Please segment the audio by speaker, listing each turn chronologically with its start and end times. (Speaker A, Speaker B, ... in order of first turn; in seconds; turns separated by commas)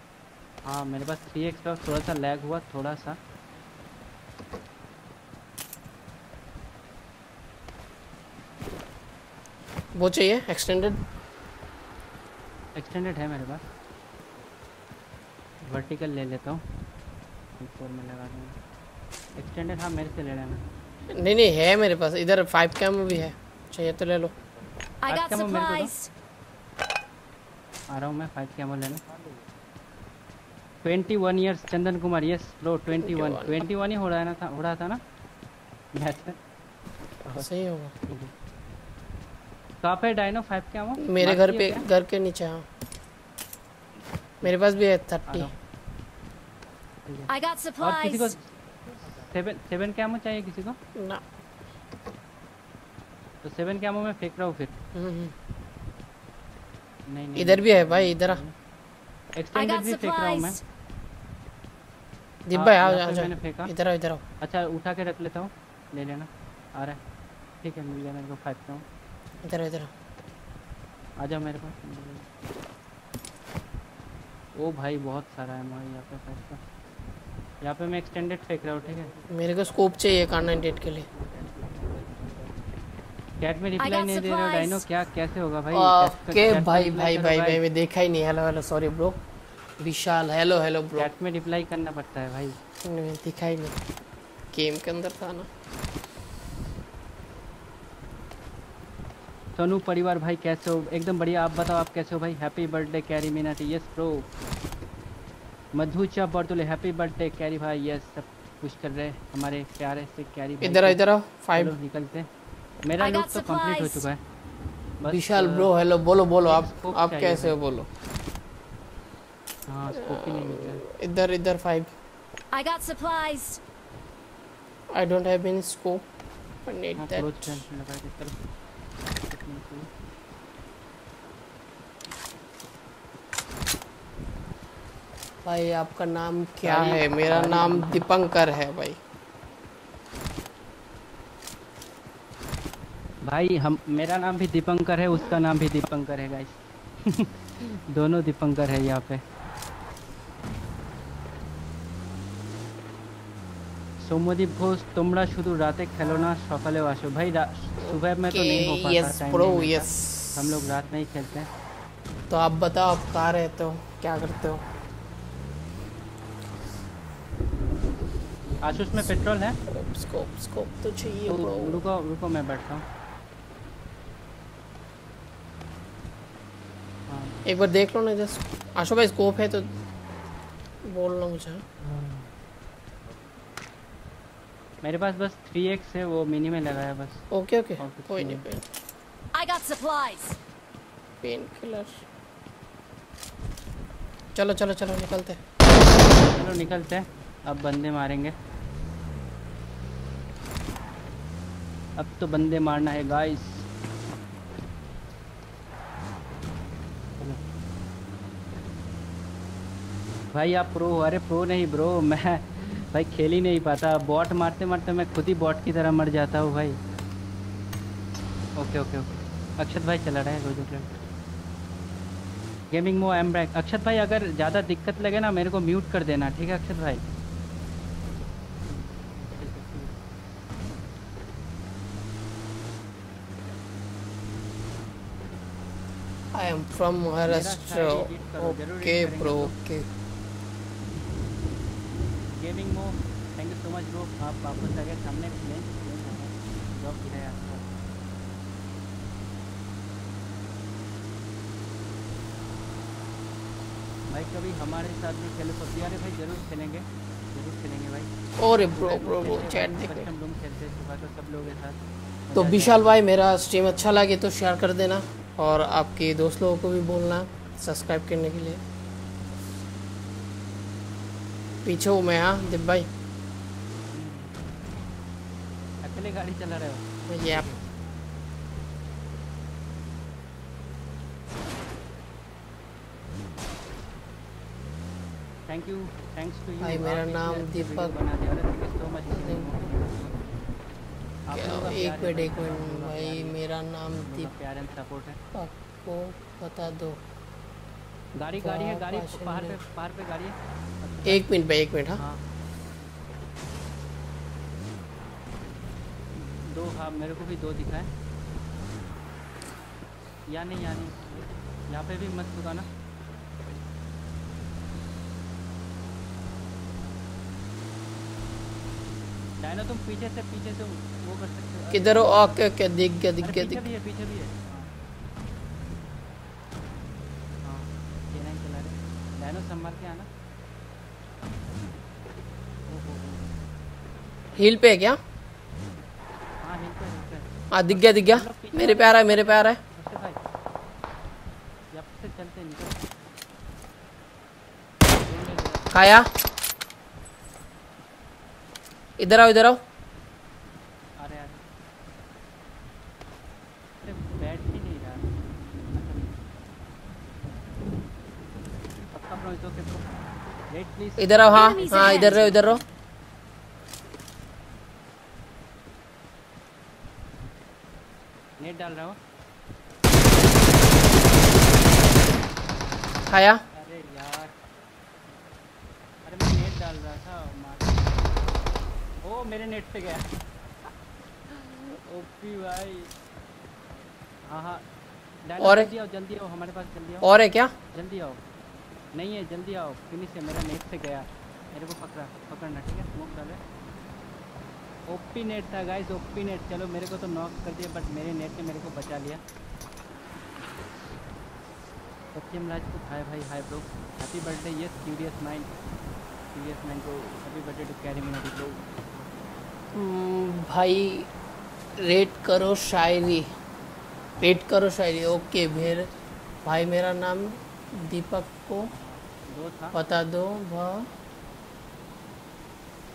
Speaker A: 0.7-3.2, Speaker B: 9.9-11.0, Speaker A: 12.8-13.6, Speaker A: 15.6-16.6, Speaker A: 17.6-18.5, Speaker A: 19.4-20.6, Speaker B: 21.1-24.3, Speaker C: 25.0-26.1, Speaker A: 25.1-25.9, Speaker A: 27.9-29.0, Speaker A: 30.8-35.0, Speaker B: 33.0-33.6, Speaker A: 35.9-36.4, Speaker B: 37.3-37.9, Speaker A: 38.0-38.3, Speaker A: 39.8-41.9, Speaker B: 41.0-42.6, Speaker B: 44.4-45.5, Speaker A: 45.3-45.5, Speaker A: 47.0-48.4, Speaker C: 47.3-48.3, Speaker A: 49.0-50.8, Speaker B: 51.0-51.2, Speaker A: 53.4-54.8, Speaker B: 54.9-55.3, Speaker A: 57.1-58.5, Speaker B: 57.4-58.4, Speaker A: 59.4-60.6, Speaker C: 59.5-60.6, Speaker B: 62.5-64.2, Speaker A: 62.5-63.7, Speaker A: 64.4-67.0, Speaker A: 67.6-68.8, Speaker B: 69.4-69.9, Speaker A: 71.2-72.2, Speaker A: 74.5-76.6, Speaker A: 77.6-79.1, Speaker B: 79.3-81.1, Speaker A: 83.4-87.6, Speaker C: 83.8-84.8, Speaker B: 85.7-89.2, Speaker B: 89.8-91.1, Speaker A: 91.0-92.6, Speaker B: 92.8-93.8, Speaker B: 94.5-95.5, Speaker A: 99.6-104.2, Speaker A: 105.8-112.3, Speaker B: 110.6-111.7, Speaker A: 112.8-114.2, Speaker C: 113.0-114.1, Speaker A: 115.0-115.7, Speaker B: 115.1-117.9, Speaker A: 116.4-117.5, Speaker A: 119.7-120.8, Speaker B: 119.9-121.9, Speaker C: 122.5-123.6, Speaker B: 124.9-126.0, Speaker B: 126.7-127.6, Speaker A: 127.0-128.3, Speaker A: 129.3-129.9, Speaker B: 135.4-139.0, Speaker A: 136.6-138.0, Speaker A: 143.2-146.5, Speaker A: 147.0-147.3, Speaker A: 147.9-149.2, Speaker A: 154.0-161.5, Speaker B: 158.3-160.4, Speaker B: 162.3-164.6, Speaker A: 168.6-169.6, Speaker B: 169.7-171.8, Speaker A: 171.3-172.8, Speaker A: 177.1-177.4, Speaker B: 177.4-179.7, Speaker B: 180.8-181.6, Speaker A: 181.8-182.3, Speaker A: 184.8-187.2, Speaker B: 187.3-188.6, Speaker A: 187.8-188.5, Speaker C: 189.3-190.4, Speaker B: 191.2-192.0, Speaker B: 194.3-195.4, Speaker A: 196.2-198.3, Speaker A: 202.0-203.6, Speaker A: 210.3-216.8, Speaker A: 218.6-219.1, Speaker A: 219.6-220.9, Speaker A: 222.7-227.0, Speaker A: 229.2-229.9, Speaker B: 236.3-239.9, Speaker A: 237.2-239.5, Speaker A: 242.3-247.6, Speaker A: 254.1-258.1, Speaker B: 258.4-260.1, Speaker A: 258.7-262.8, Speaker B: 262.3-268.6, Speaker B: 271.6-272.9, Speaker A: 273.9-274.3, Speaker A: 275.8-277.5, Speaker B: 277.1-277.5, Speaker A: 285.5-290.1, Speaker B: 286.6-287.9, Speaker B: 289.1-289.5, Speaker A: 291.3-293.4, Speaker B: 291.3-294.3, Speaker A: 294.0-295.2, Speaker B: 295.3-297.0, Speaker A: 298.2-301.2, Speaker B: 298.4-299.6, Speaker B: 301.0-302.0, Speaker A: 306.2-307.9, Speaker A: 310.3-312.7, Speaker A: 319.4-322.3, Speaker B: 321.7-323.7, Speaker A: 323.2-324.7, Speaker A: 327.4-330.1, Speaker A: 332.7-333.4, Speaker B: 334.4-335.0, Speaker A: 336.4-340.2, Speaker B: 337.5-339.6, Speaker A: 341.7-342.8, Speaker A: 345.0-345.7, Speaker B: 345.7-346.1, Speaker B: 349.0-349.6, Speaker A: 351.0-351.4, Speaker A: 353.8-355.1, Speaker A: 355.6-356.1, Speaker A: 358.9-359.8, Speaker A: 360.5-362.6, Speaker B: 361.0-362.6, Speaker A: 368.4-369.0, Speaker B: 373.1-373.4, Speaker A: 373.6-374.3, Speaker A: 376.1-378.0, Speaker A: 379.0-380.1, Speaker A: 381.3-382.9, Speaker A: 384.3-384.6, Speaker A: 385.3-387.1, Speaker B: 385.4-385.7, Speaker B: 387.0-387.5, Speaker A: 387.7-388.2, Speaker A: 388.9-393.4, Speaker A: 394.9-399.2, Speaker A: 402.1-405.5, Speaker A: 406.3-408.6, Speaker B: 409.7-411.1, Speaker B: 411.8-413.3, Speaker B: 414.2-415.9, Speaker B: 416.4-418.7, Speaker A: 418.7-419.8, Speaker B: 419.7-420.9